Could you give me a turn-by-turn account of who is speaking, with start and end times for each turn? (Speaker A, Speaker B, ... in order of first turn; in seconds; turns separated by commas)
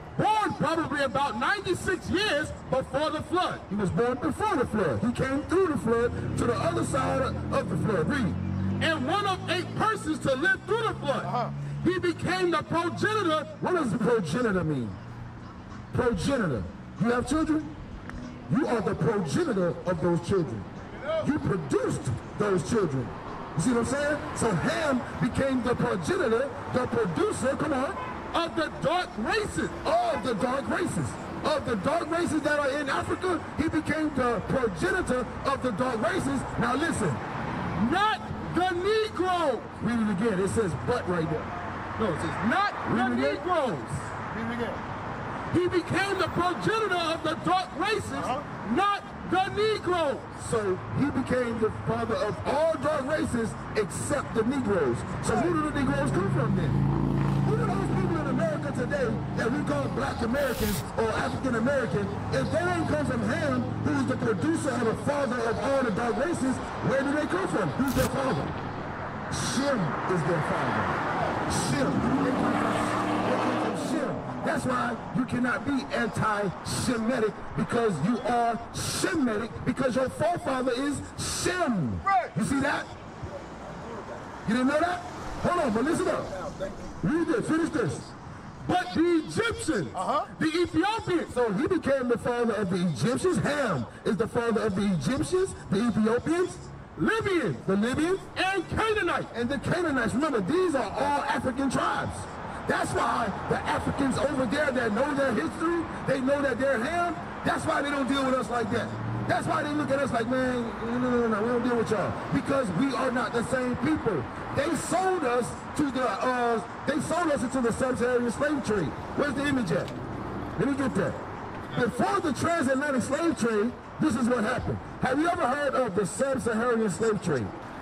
Speaker A: 0.1-3.6, Speaker B: 3.6-8.4, Speaker A: 8.8-13.5, Speaker C: 11.2-11.6, Speaker B: 13.4-15.0, Speaker B: 15.9-17.7, Speaker B: 18.5-20.7, Speaker B: 21.2-28.0, Speaker A: 28.3-29.8, Speaker B: 29.8-37.2, Speaker A: 37.7-39.7, Speaker B: 39.8-41.5, Speaker A: 42.0-44.1, Speaker B: 42.8-43.4, Speaker C: 44.2-44.8, Speaker A: 45.5-50.3, Speaker C: 48.1-48.4, Speaker B: 50.4-56.8, Speaker B: 57.4-68.6, Speaker B: 69.3-82.9, Speaker C: 82.0-82.3, Speaker C: 83.2-84.3, Speaker B: 84.4-86.3, Speaker C: 85.9-87.0, Speaker B: 87.0-88.1, Speaker A: 88.6-91.3, Speaker C: 89.9-90.3, Speaker B: 91.2-96.7, Speaker A: 97.0-97.6, Speaker B: 97.6-98.3, Speaker A: 98.3-99.3, Speaker B: 99.3-119.9, Speaker B: 120.5-127.5